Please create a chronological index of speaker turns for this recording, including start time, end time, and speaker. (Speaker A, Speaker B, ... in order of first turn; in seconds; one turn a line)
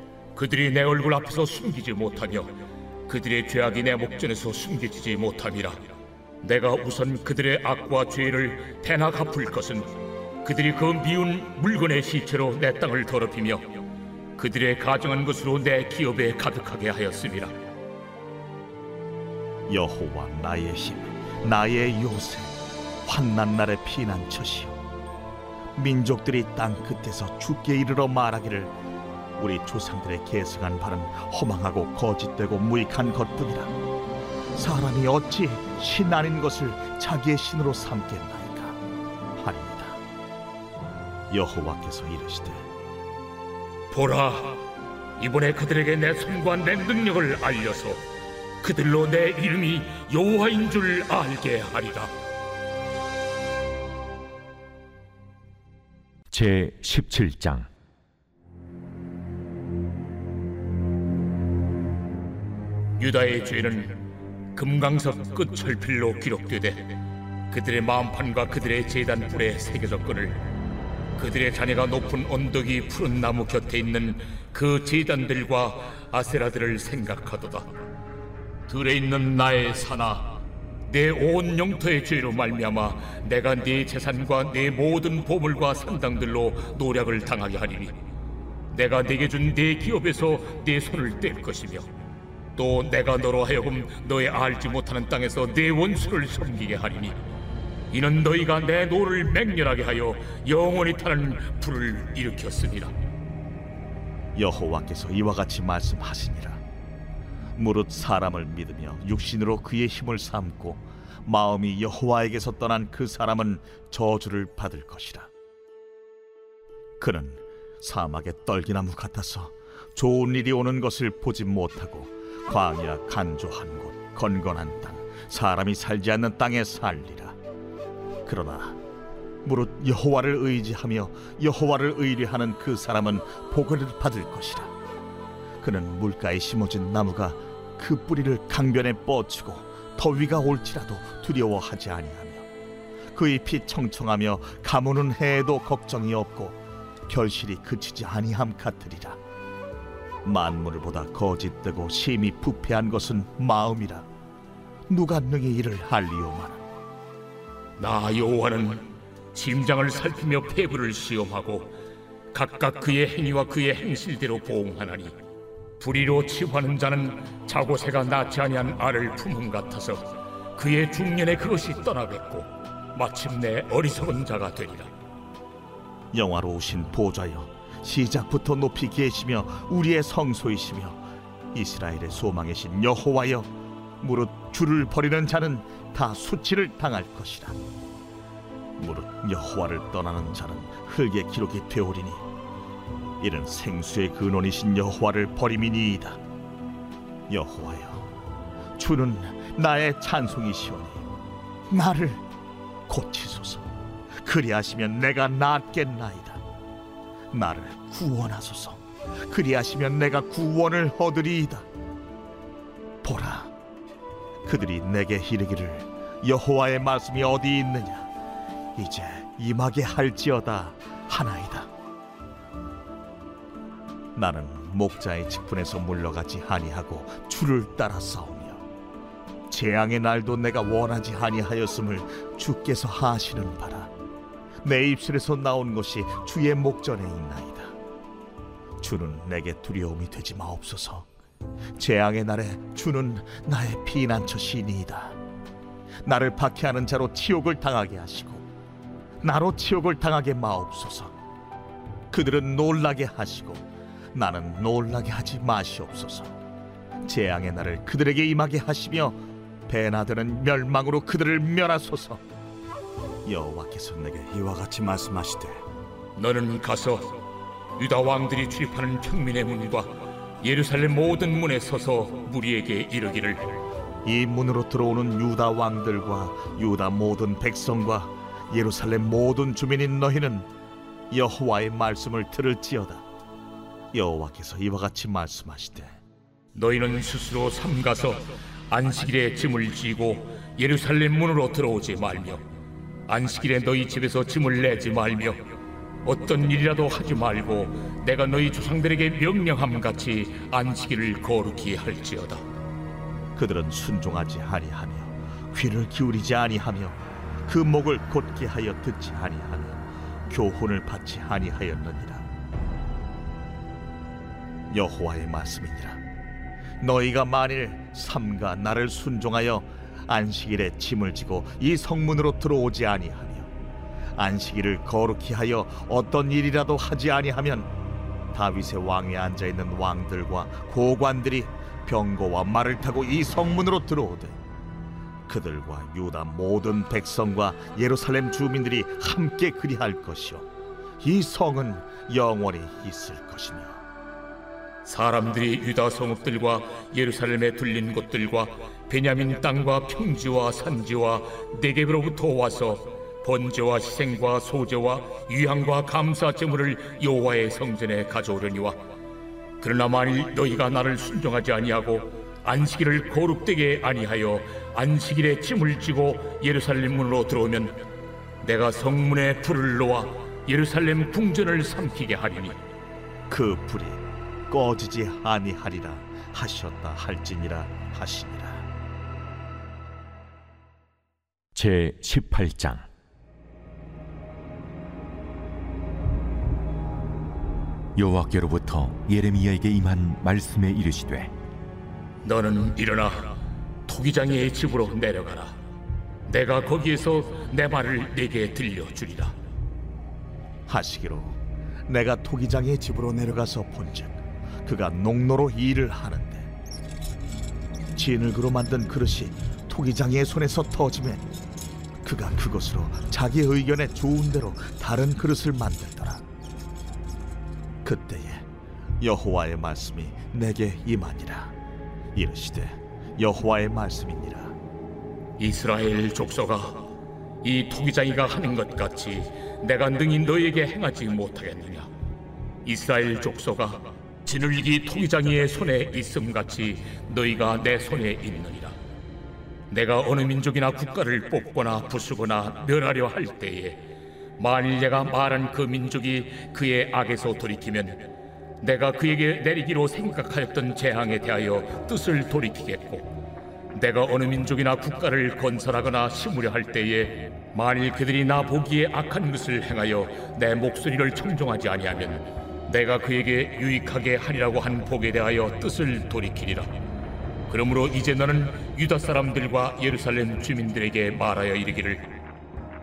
Speaker A: 0.3-2.5
Speaker A: 3.1-5.8
Speaker A: 6.4-9.9
Speaker A: 10.4-13.8
Speaker A: 14.4-17.5
Speaker B: 19.7-24.8
Speaker B: 25.8-28.7
Speaker B: 29.4-33.7
Speaker B: 34.5-38.8
Speaker B: 39.4-40.0
Speaker B: 41.3-42.7
Speaker A: 43.9-44.6
Speaker A: 45.2-48.0
Speaker A: 48.6-52.1
Speaker C: 56.3-57.7
Speaker A: 63.0-64.0
Speaker A: 64.5-66.9
Speaker A: 67.5-70.4
Speaker A: 71.2-77.7
Speaker A: 78.7-80.4
Speaker A: 80.9-87.9
Speaker A: 88.7-91.9
Speaker A: 92.6-97.2
Speaker A: 97.9-102.9
Speaker B: 104.3-106.6
Speaker B: 107.5-115.3
Speaker B: 117.0-127.3
Speaker B: 128.2-128.8
Speaker B: 129.4-134.7
Speaker B: 135.6-142.4
Speaker B: 143.1-149.2
Speaker B: 150.2-154.1
Speaker B: 154.9-156.6
Speaker A: 157.8-161.7
Speaker A: 162.3-165.1
Speaker A: 165.8-170.0
Speaker A: 170.6-174.9
Speaker B: 176.1-183.5
Speaker B: 184.0-187.6
Speaker B: 188.8-192.2
Speaker B: 193.2-196.2
Speaker B: 197.3-198.1
Speaker B: 198.8-201.0
Speaker B: 201.7-202.2
Speaker B: 202.9-203.7
Speaker B: 204.2-206.4
Speaker B: 207.3-211.7
Speaker B: 213.0-213.5
Speaker B: 214.4-218.1
Speaker B: 218.8-221.7
Speaker B: 224.2-228.7
Speaker B: 229.5-233.9
Speaker B: 234.6-237.7
Speaker B: 238.8-241.1
Speaker B: 241.8-245.2
Speaker B: 246.0-248.4
Speaker B: 249.2-251.1
Speaker B: 252.1-256.3
Speaker B: 257.0-262.2
Speaker B: 263.2-265.6
Speaker A: 266.1-267.2
Speaker A: 267.8-269.9
Speaker A: 270.4-273.5
Speaker B: 274.0-280.5
Speaker B: 281.1-283.0
Speaker B: 283.9-286.0
Speaker A: 286.5-292.4
Speaker A: 293.1-295.4
Speaker A: 296.0-302.4
Speaker B: 303.4-312.2
Speaker B: 314.7-316.0
Speaker B: 316.8-323.5
Speaker B: 324.2-327.7
Speaker B: 328.3-334.4
Speaker B: 335.3-340.4
Speaker B: 341.0-343.8
Speaker A: 344.8-358.8
Speaker A: 359.6-367.8
Speaker A: 368.4-372.6
Speaker B: 373.3-378.6
Speaker C: 381.5-382.9
Speaker C: 387.9-391.3
Speaker A: 392.2-393.3
Speaker A: 393.9-395.5
Speaker A: 396.3-399.3
Speaker B: 400.7-406.5
Speaker B: 407.9-411.2
Speaker B: 412.0-416.2
Speaker B: 417.8-418.4
Speaker B: 419.0-421.5
Speaker B: 422.1-424.5
Speaker A: 425.4-426.8
Speaker A: 427.4-431.9
Speaker A: 432.6-438.8
Speaker A: 439.7-443.8
Speaker A: 444.4-448.1
Speaker A: 448.6-453.1
Speaker A: 453.7-466.7
Speaker A: 467.5-472.2